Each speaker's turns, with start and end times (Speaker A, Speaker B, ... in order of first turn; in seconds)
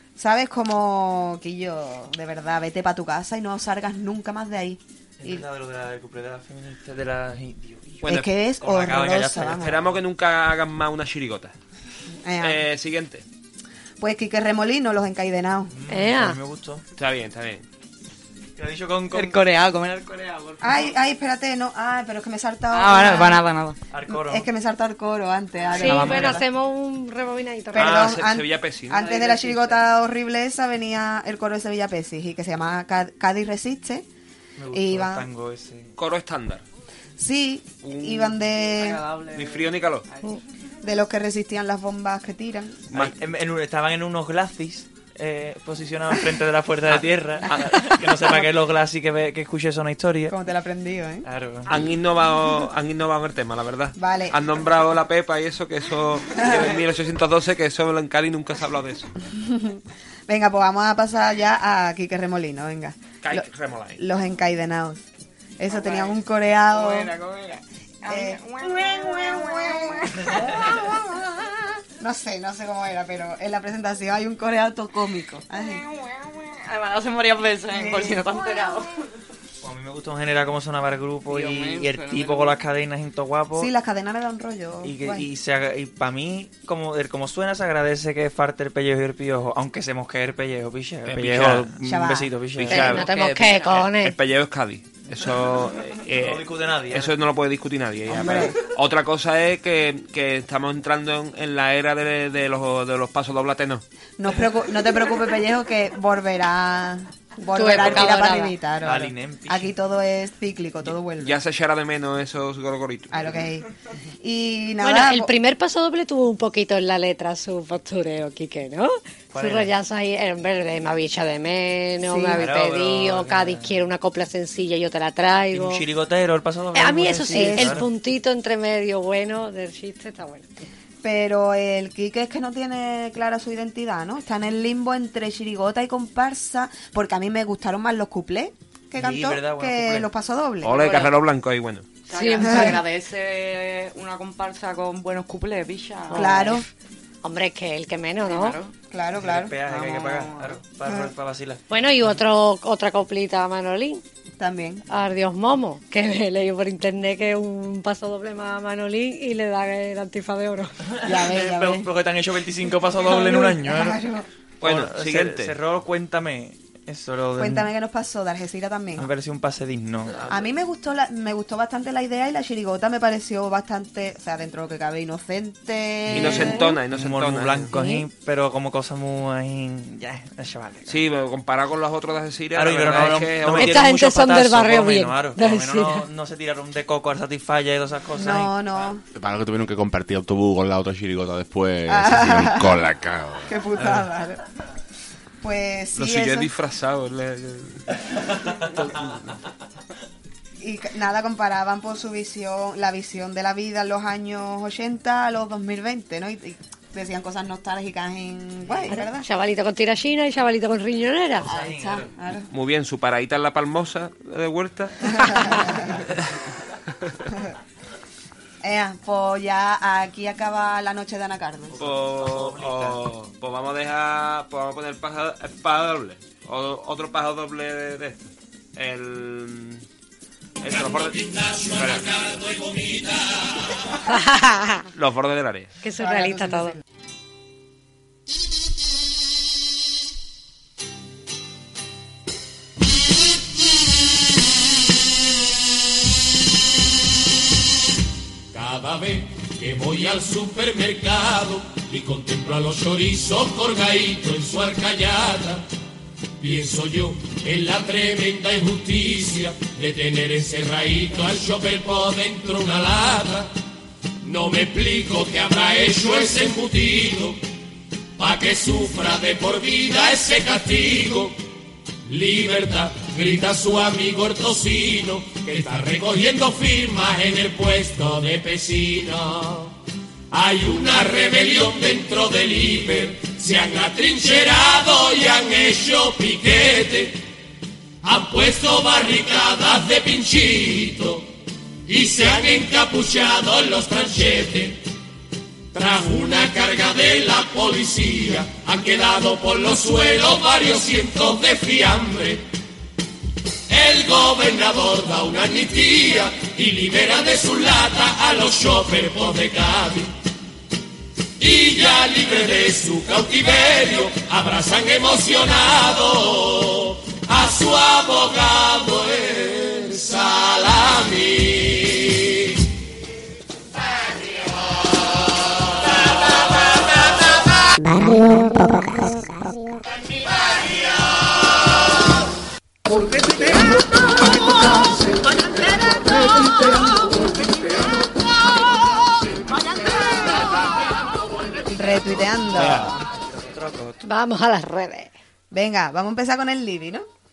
Speaker A: 0.2-5.4, 8.0-9.8, 12.2-12.6, 14.0-15.7, 20.6-23.4, 24.1-26.4, 27.7-34.1, 34.7-35.3, 37.2-39.0, 40.8-42.9, 50.3-51.3, 54.0-54.4, 56.4-56.6, 59.3-63.5, 64.0-65.1, 65.6-67.2, 68.0-71.0, 72.0-75.8, 77.7-78.4, 83.6-85.3, 91.8-92.3, 98.1-98.6, 104.2-111.4, 113.1-113.7, 114.2-115.3, 122.0-122.5, 127.3-127.9, 131.0-140.8, 142.4-142.8, 146.1-146.6, 148.9-149.6, 150.9-151.1, 154.4-154.8, 161.0-161.9, 163.0-164.2, 167.4-169.1, 170.2-176.7, 188.2-189.0, 191.9-192.8, 193.5-194.4, 195.4-196.5, 200.6-209.3, 211.5-212.5, 215.1-216.0, 218.6-221.8, 236.0-236.8, 341.7-343.0, 345.5-347.1
Speaker B: 5.2-9.7, 15.7-16.9, 18.6-19.4, 23.9-24.5, 25.8-26.4, 34.6-35.9, 42.9-50.4, 51.2-51.7, 79.6-83.7, 84.8-93.1, 96.1-97.1, 107.8-108.2, 108.8-109.8, 119.3-119.7, 122.3-123.8, 125.5-127.9, 138.9-140.1, 149.2-151.6, 160.9-164.0, 164.6-167.7, 168.9-170.3, 176.1-181.0, 182.5-188.5, 211.4-212.1, 221.7-223.0, 343.3-344.0
Speaker C: 8.0-8.3, 9.4-11.5, 12.4-13.2, 17.0-17.6, 27.7-29.1, 36.0-36.6, 37.8-38.4, 39.3-40.1, 42.9-43.1, 51.7-59.1, 63.2-64.0, 91.0-91.8, 92.6-93.0, 93.6-103.8, 110.9-113.1, 140.6-141.9, 164.6-165.6, 176.1-177.7, 180.9-183.8, 195.9-197.9, 198.5-199.3, 212.5-215.7, 221.8-229.8, 230.6-232.1, 234.9-235.7, 342.5-342.9
Speaker D: 15.9-16.4, 25.8-28.0, 92.7-94.1, 107.5-108.5, 114.8-125.8, 126.7-130.4, 142.1-142.8, 146.1-146.6, 147.2-148.6, 151.7-154.0, 154.9-160.7, 177.7-178.1, 183.5-186.1, 208.9-211.5, 234.1-234.8, 235.8-236.8, 344.0-345.1
Speaker E: 19.1-20.8, 22.7-23.8, 25.7-26.4, 29.0-29.9, 38.7-40.4, 65.7-66.2, 66.7-68.4, 76.5-79.0, 81.2-82.6, 92.7-93.6, 140.8-141.1, 142.1-146.6, 148.2-148.7, 149.6-150.6
Speaker F: 68.7-69.3, 327.8-329.8
Speaker G: 189.1-193.6
Speaker H: 230.7-233.4, 248.5-255.6, 256.4-263.5, 264.2-267.4, 268.2-271.4, 272.1-279.7, 280.3-287.2, 288.0-291.2, 291.9-294.8, 295.7-302.4, 303.7-310.1, 311.4-322.4